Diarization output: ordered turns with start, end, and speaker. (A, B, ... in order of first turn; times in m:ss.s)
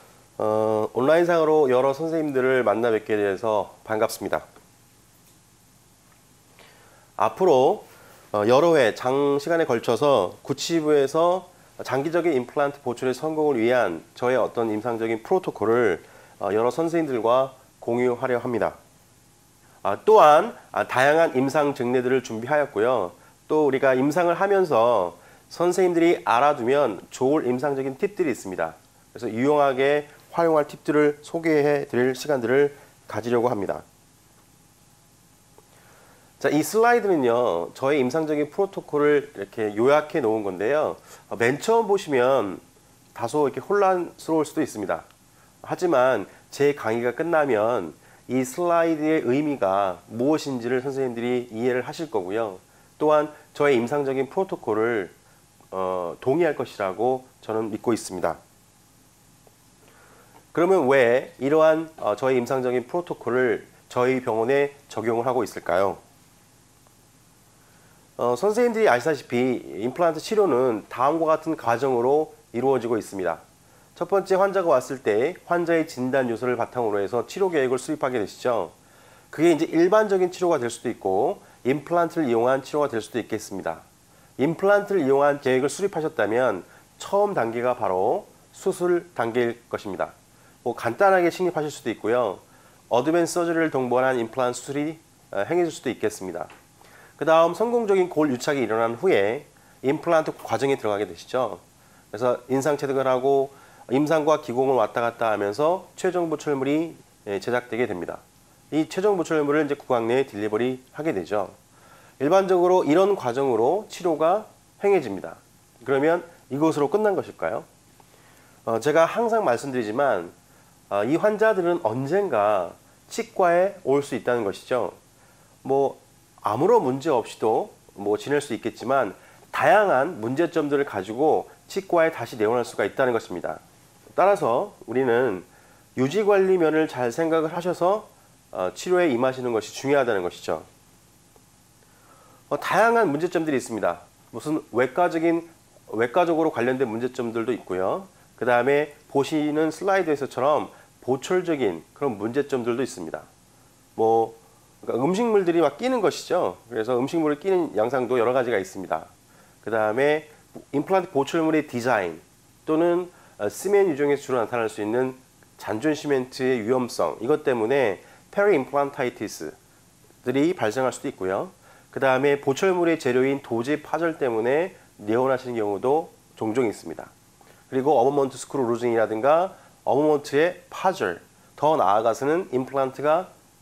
0:00.4-0:04.5 A
0:07.2-0:18.8 A
0:19.8-0:33.8 A
0:36.4-0:42.6 A
0:43.1-0:45.1 A
0:45.6-0:55.2 A
0:55.7-0:58.4 A
1:00.5-1:06.0 A
1:08.2-1:13.4 A
1:14.0-1:18.7 A
1:19.3-1:23.8 A
1:24.4-1:36.5 A
1:37.2-1:51.6 A
1:52.2-1:57.7 A
1:58.7-2:00.3 A
2:00.9-2:05.0 A
2:05.6-2:13.6 A
2:14.2-2:20.7 A
2:22.5-2:33.3 A
2:34.0-2:39.1 A
2:39.6-2:49.6 A
2:50.2-2:57.1 A
2:57.7-3:03.3 A